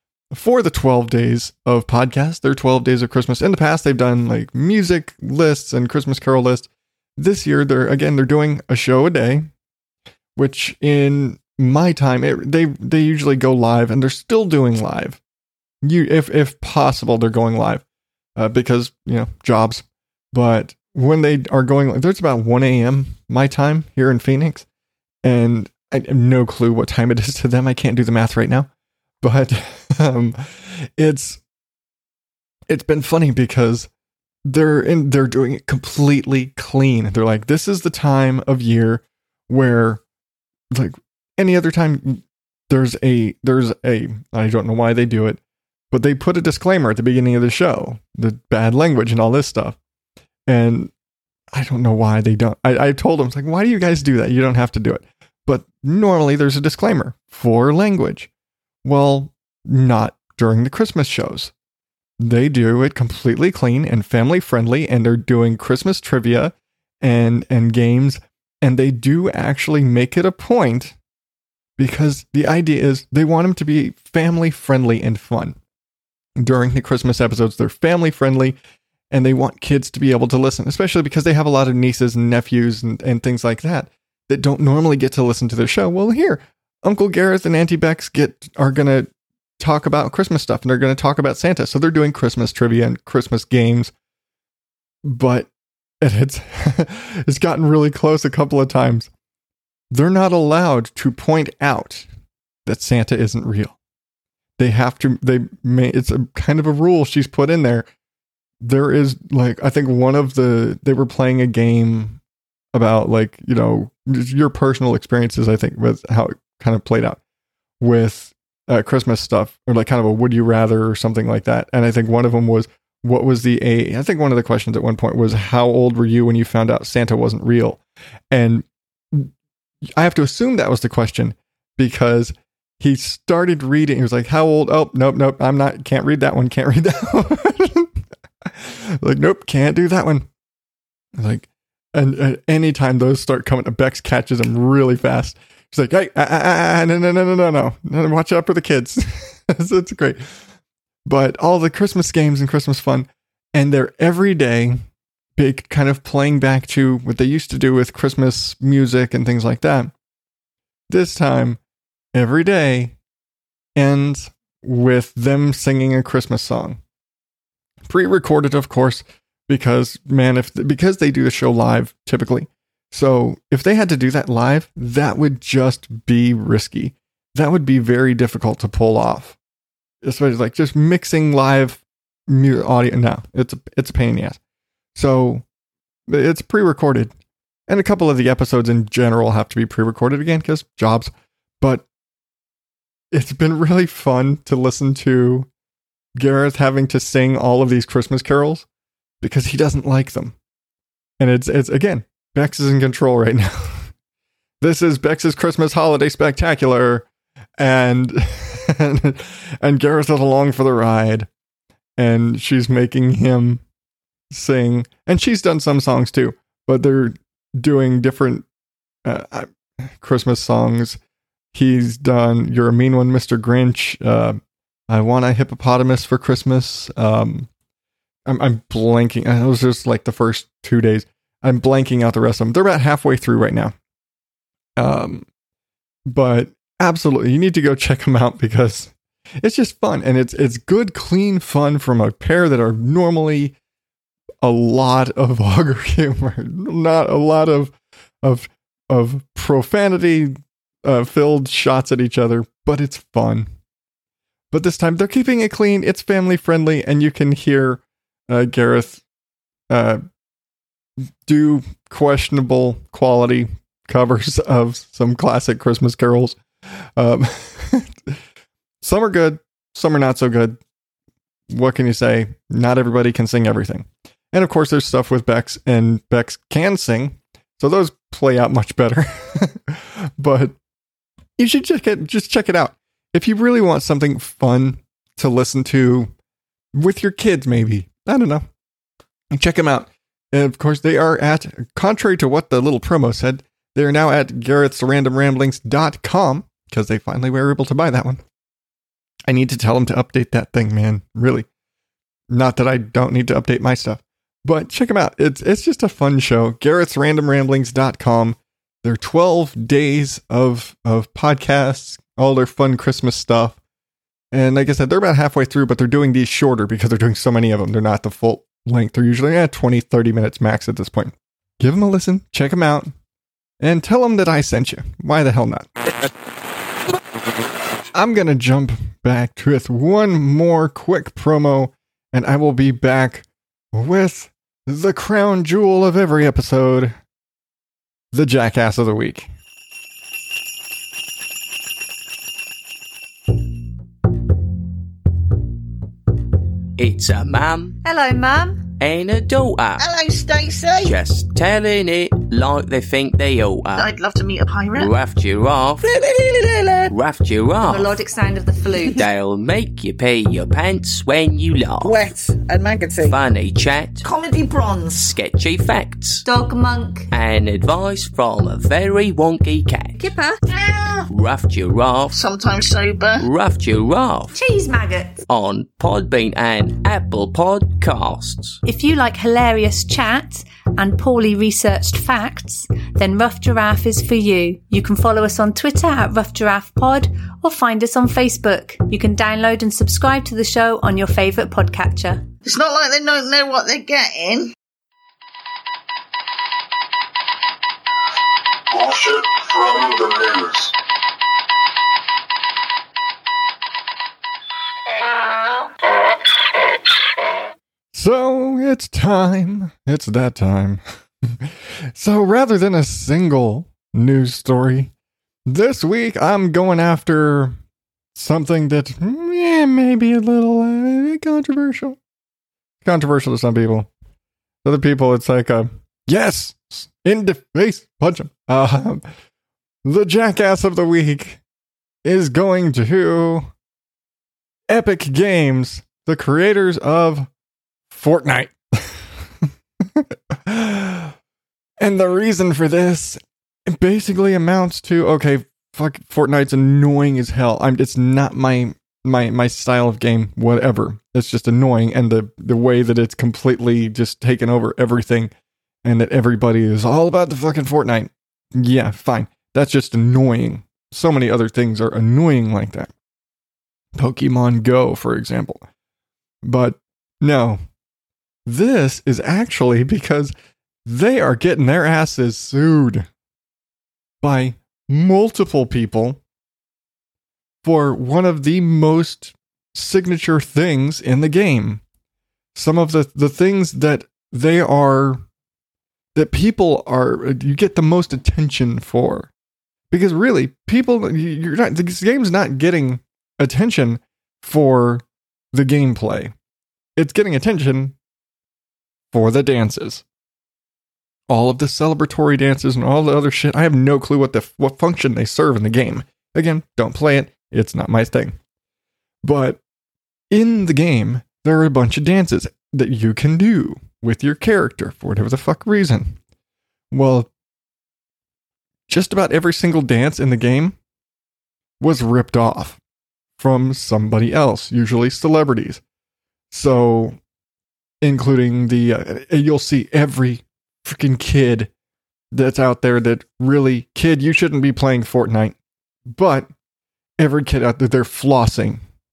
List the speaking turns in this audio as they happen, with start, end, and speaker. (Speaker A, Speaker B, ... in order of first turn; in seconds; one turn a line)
Speaker A: 0.3-9.5
Speaker A: 10.3-15.2
Speaker A: 15.8-17.8
Speaker A: 18.4-24.6
Speaker A: 25.2-28.7
Speaker A: 29.2-31.4
Speaker A: 32.7-33.9
Speaker A: 34.5-40.0
Speaker A: 40.7-45.4
Speaker A: 45.9-49.8
Speaker A: 50.5-50.9
Speaker A: 51.5-58.3
Speaker A: 58.8-61.5
Speaker A: 62.2-71.0
Speaker A: 71.8-75.5
Speaker A: 76.4-78.6
Speaker A: 79.1-89.1
Speaker A: 89.6-93.9
Speaker A: 95.0-95.5
Speaker A: 96.0-99.1
Speaker A: 99.9-102.1
Speaker A: 102.7-103.8
Speaker A: 104.6-107.9
Speaker A: 108.6-112.2
Speaker A: 112.7-117.2
Speaker A: 117.8-127.8
Speaker A: 128.3-129.3
Speaker A: 129.9-137.9
Speaker A: 138.5-140.3
Speaker A: 141.2-150.2
Speaker A: 151.1-154.8
Speaker A: 155.4-159.9
Speaker A: 160.9-161.6
Speaker A: 162.1-162.9
Speaker A: 163.8-166.8
Speaker A: 167.8-179.4
Speaker A: 180.0-184.4
Speaker A: 184.9-185.4
Speaker A: 186.1-187.1
Speaker A: 187.7-191.8
Speaker A: 193.1-195.5
Speaker A: 196.2-198.7
Speaker A: 199.2-200.3
Speaker A: 201.2-203.9
Speaker A: 204.6-207.1
Speaker A: 207.6-211.3
Speaker A: 212.0-213.6
Speaker A: 214.3-218.4
Speaker A: 219.0-221.0
Speaker A: 221.5-227.5
Speaker A: 228.3-233.7
Speaker A: 234.8-235.2
Speaker A: 236.1-243.5
Speaker A: 244.4-253.5
Speaker A: 254.5-259.0
Speaker A: 259.7-260.0
Speaker A: 261.2-266.4
Speaker A: 267.0-268.1
Speaker A: 268.8-270.6
Speaker A: 271.5-280.6
Speaker A: 281.4-286.1
Speaker A: 286.7-288.4
Speaker A: 289.3-298.2
Speaker A: 299.3-301.5
Speaker A: 302.3-313.6
Speaker A: 314.3-322.9
Speaker A: 323.6-325.7
Speaker A: 327.9-336.9
Speaker A: 338.1-339.3
Speaker B: 346.8-347.8
Speaker C: 347.8-348.6
Speaker B: 348.8-349.8
Speaker D: 349.8-350.9
Speaker B: 350.8-353.9
Speaker D: 353.7-354.9
Speaker B: 354.7-355.8
Speaker D: 355.8-356.9
Speaker B: 356.9-358.0
Speaker C: 357.6-359.0
Speaker B: 358.9-362.0
Speaker D: 361.8-363.2
Speaker B: 363.0-364.0
Speaker D: 364.0-365.2
Speaker B: 365.1-366.2
Speaker C: 366.2-367.1
Speaker B: 367.1-369.9
Speaker C: 370.0-370.4
Speaker D: 370.6-371.0
Speaker B: 371.1-372.1
Speaker D: 372.1-373.2
Speaker B: 373.2-374.3
Speaker C: 374.3-375.2
Speaker B: 375.3-378.6
Speaker E: 378.6-392.2
Speaker D: 392.4-394.5
Speaker D: 398.7-400.7
Speaker A: 407.9-414.9
Speaker A: 415.5-417.6
Speaker A: 418.1-422.0
Speaker A: 422.8-423.9
Speaker A: 424.6-429.0
Speaker A: 429.8-431.4
Speaker A: 432.0-433.5
Speaker A: 434.7-437.3
Speaker A: 437.9-439.1
Speaker A: 439.9-441.1
Speaker A: 441.8-455.3
Speaker A: 455.8-462.9
Speaker A: 463.9-465.6
Speaker A: 466.4-467.6
Speaker A: 468.4-470.3
Speaker A: 470.8-473.1
Speaker A: 474.2-476.2
Speaker A: 477.6-481.8
Speaker A: 482.5-485.2
Speaker A: 486.1-489.3
Speaker A: 489.9-496.3
Speaker A: 497.0-497.9
Speaker A: 499.1-500.0
Speaker A: 501.3-508.4
Speaker A: 509.2-509.6
Speaker A: 510.3-516.2
Speaker A: 516.9-517.3
Speaker A: 518.9-520.8
Speaker A: 521.8-522.8
Speaker A: 523.4-525.8
Speaker A: 526.5-527.2
Speaker A: 528.0-531.7
Speaker A: 532.3-535.5
Speaker A: 536.1-536.5
Speaker A: 537.2-538.8